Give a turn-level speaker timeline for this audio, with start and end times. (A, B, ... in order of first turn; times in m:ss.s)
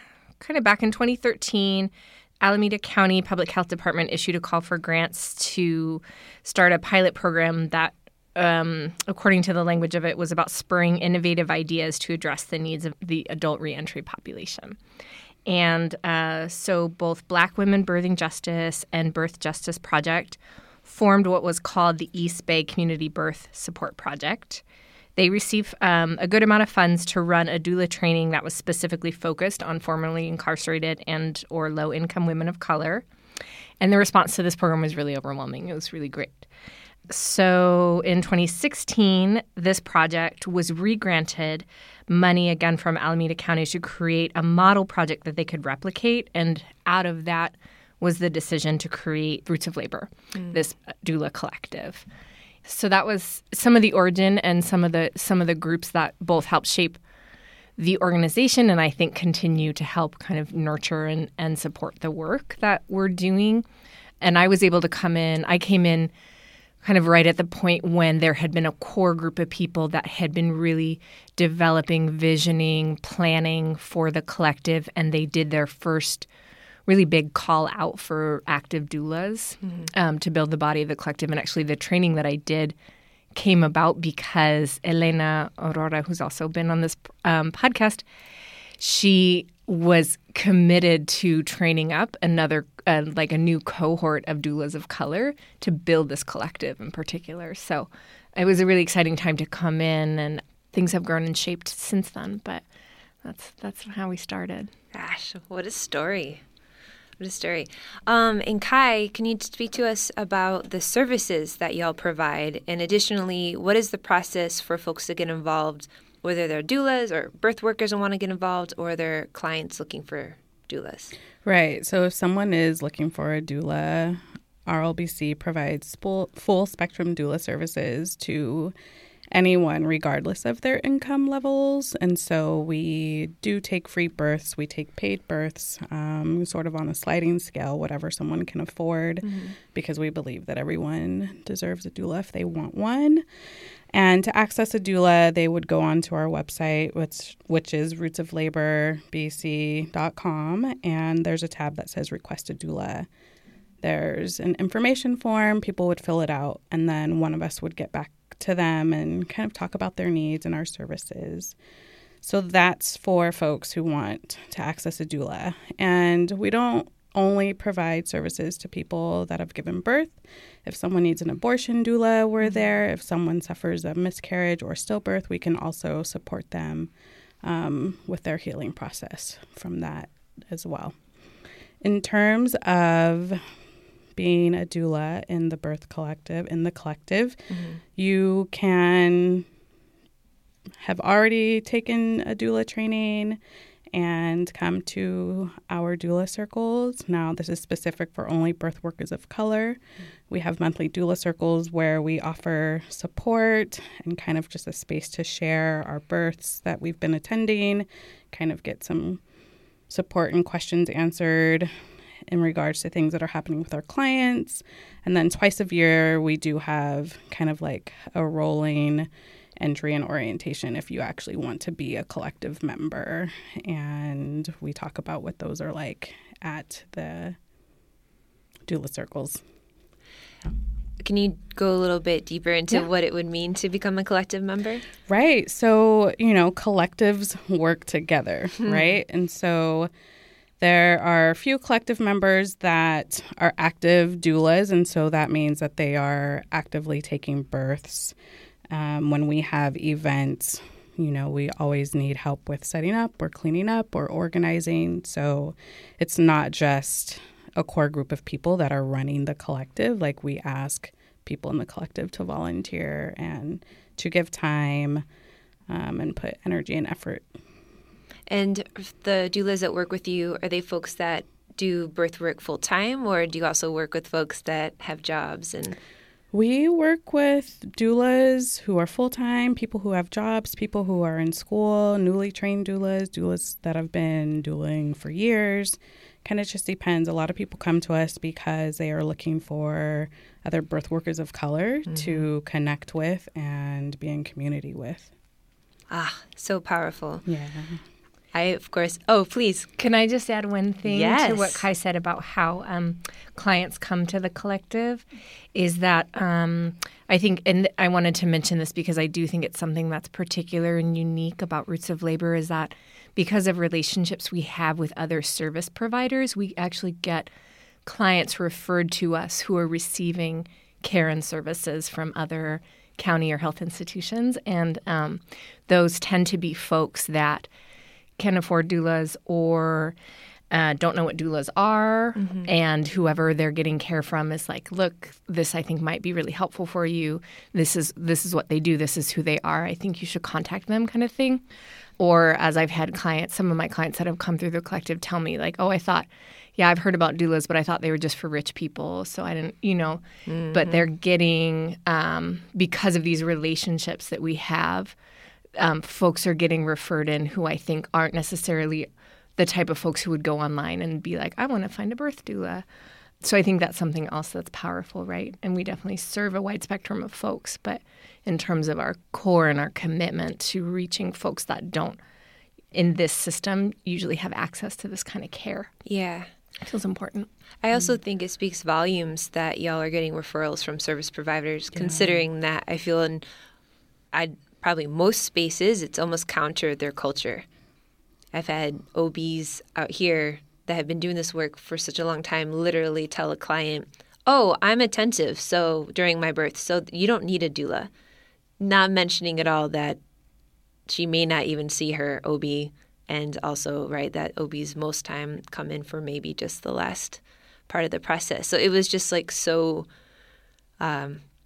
0:00.4-0:14.8 A
0:15.5-0:24.6 A
0:25.2-0:33.0 A
0:33.8-0:36.5 A
0:37.1-0:52.1 A
0:52.7-0:57.0 A
0:57.8-1:03.6 A
1:04.2-1:06.1 A
1:06.8-1:16.3 A
1:16.9-1:22.8 A
1:23.4-1:28.0 A
1:28.8-1:42.6 A
1:43.2-1:44.7 A
1:44.9-1:46.4 B
1:47.2-2:01.2 B
2:01.4-2:08.7 C
2:09.3-2:23.2 C
2:19.2-2:19.6 B
2:23.9-2:33.1 C
2:33.8-2:41.6 C
2:42.2-2:56.9 C
2:57.4-3:01.0 C
3:01.8-3:03.4 C
3:04.2-3:09.5 C
3:07.5-3:07.8 B
3:10.8-3:13.4 C
3:13.9-3:29.2 C
3:29.9-3:31.7 C
3:32.3-3:47.4 C
3:48.7-3:49.4 C
3:51.0-3:54.8 B
3:55.1-3:59.9 C
3:58.6-3:58.9 B
4:00.6-4:08.2 C
4:08.7-4:25.0 C
4:25.7-4:27.3 C
4:28.3-4:35.8 B
4:36.3-4:55.1 C
4:51.9-4:52.3 B
4:55.9-4:57.2 B
4:57.2-4:57.8 C
4:58.3-4:59.7 B
4:59.8-5:17.3 A
5:00.8-5:01.6 B
5:17.9-5:27.5 A
5:28.2-5:30.0 A
5:30.5-5:41.4 A
5:32.2-5:32.5 B
5:42.0-5:50.0 A
5:50.3-5:50.8 B
5:50.5-5:55.0 A
5:55.6-6:02.6 A
6:03.2-6:12.0 A
6:12.7-6:15.7 A
6:15.9-6:16.3 B
6:16.6-6:17.3 A
6:17.6-6:23.2 B
6:21.8-6:22.2 C
6:24.1-6:27.5 B
6:28.3-6:37.9 B
6:38.6-6:40.0 B
6:40.9-6:49.9 B
6:50.8-6:51.2 B